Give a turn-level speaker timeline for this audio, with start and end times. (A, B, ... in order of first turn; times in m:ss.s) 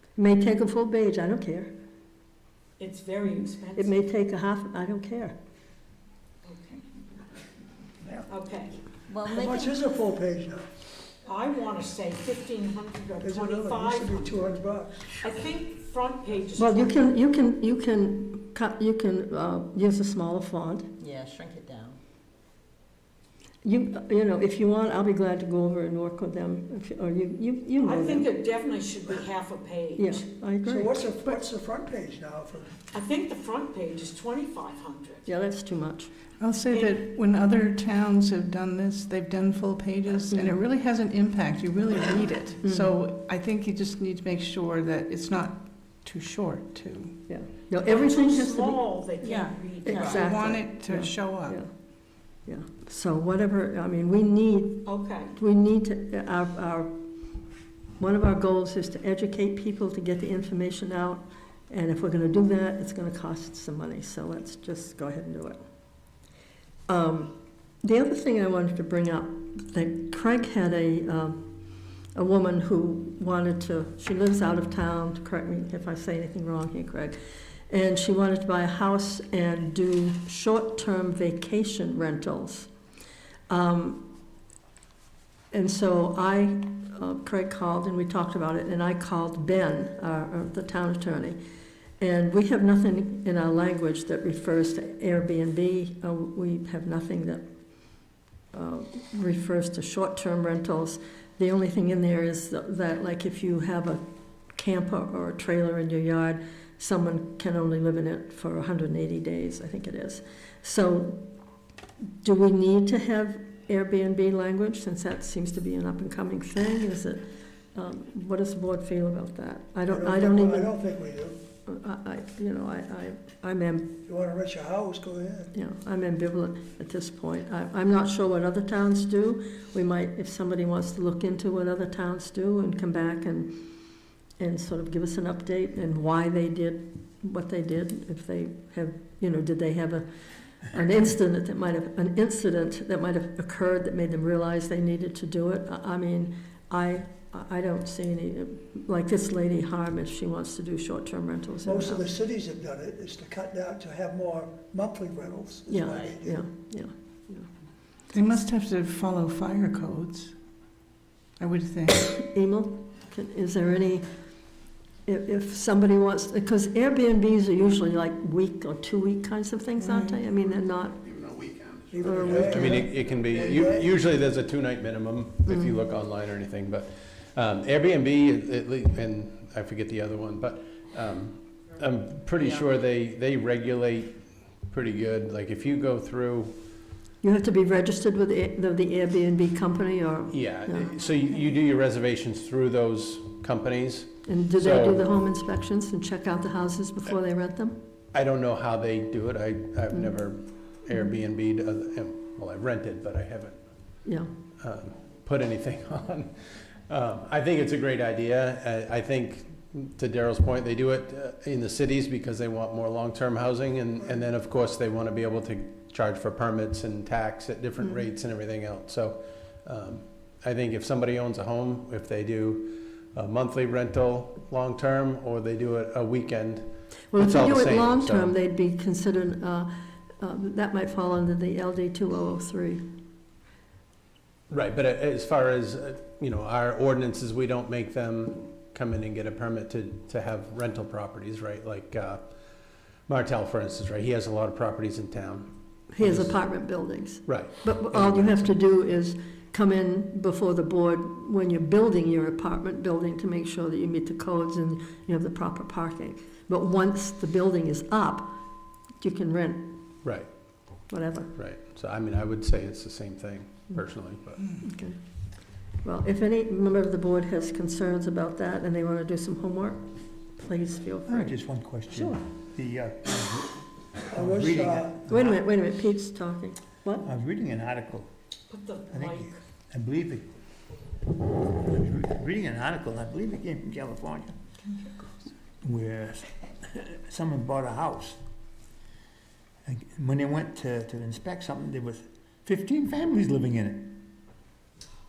0:00.2-0:01.7 A
0:02.8-0:04.1 B
0:03.8-0:05.4 A
0:06.4-0:06.9 B
0:08.3-0:08.8 B
0:09.1-0:09.8 C
0:09.2-0:10.7 D
0:11.2-0:14.5 B
0:13.2-0:15.2 D
0:15.2-0:17.1 B
0:16.6-0:20.9 A
0:21.0-0:22.0 C
0:23.6-0:28.3 A
0:27.8-0:30.3 B
0:30.0-0:31.0 A
0:30.6-0:32.8 D
0:32.9-0:35.3 B
0:35.3-0:36.1 A
0:36.4-0:47.1 E
0:40.3-0:40.6 A
0:42.6-0:42.9 A
0:47.3-0:48.8 A
0:47.8-0:50.4 B
0:49.2-0:51.6 E
0:49.9-0:51.7 A
0:49.9-0:50.3 C
0:52.5-0:56.9 A
0:54.8-0:55.4 B
0:58.0-1:05.6 A
1:06.9-1:11.5 A
1:12.2-1:17.2 A
1:17.7-1:22.7 A
1:23.5-1:24.2 A
1:25.5-1:31.4 A
1:32.0-1:37.4 A
1:38.5-1:44.0 A
1:44.6-1:51.3 A
1:52.2-1:57.2 A
1:57.8-2:00.7 A
1:59.9-2:01.4 D
2:01.7-2:03.9 A
2:04.1-2:05.5 D
2:05.5-2:13.7 A
2:14.4-2:20.1 A
2:20.7-2:32.1 A
2:31.7-2:36.4 D
2:35.7-2:37.5 A
2:38.1-2:40.3 E
2:41.4-2:42.2 E
2:42.2-2:44.1 A
2:45.1-2:51.0 A
2:49.8-2:50.2 E
2:51.9-2:53.9 D
2:52.0-2:52.9 A
2:52.4-3:06.6 F
2:55.5-2:55.7 A
3:07.2-3:10.9 A
3:10.3-3:15.0 F
3:14.3-3:17.8 A
3:18.1-3:23.6 F
3:24.6-3:26.4 F
3:26.9-3:48.4 F
3:47.1-3:52.8 A
3:54.5-4:02.3 F
4:03.1-4:06.4 F
4:05.9-4:18.3 A
4:07.3-4:08.6 F
4:19.0-4:19.7 A
4:20.0-4:20.3 F
4:20.9-4:21.3 A
4:21.4-4:24.6 F
4:24.6-4:25.0 A
4:25.8-4:31.4 A
4:31.1-4:35.4 G
4:31.9-4:32.2 A
4:34.1-4:35.0 D
4:35.1-4:37.1 A
4:37.0-4:38.1 G
4:38.5-4:39.4 B
4:38.9-4:40.3 G
4:41.4-4:44.4 G
4:45.6-4:48.2 G
4:49.6-4:54.1 G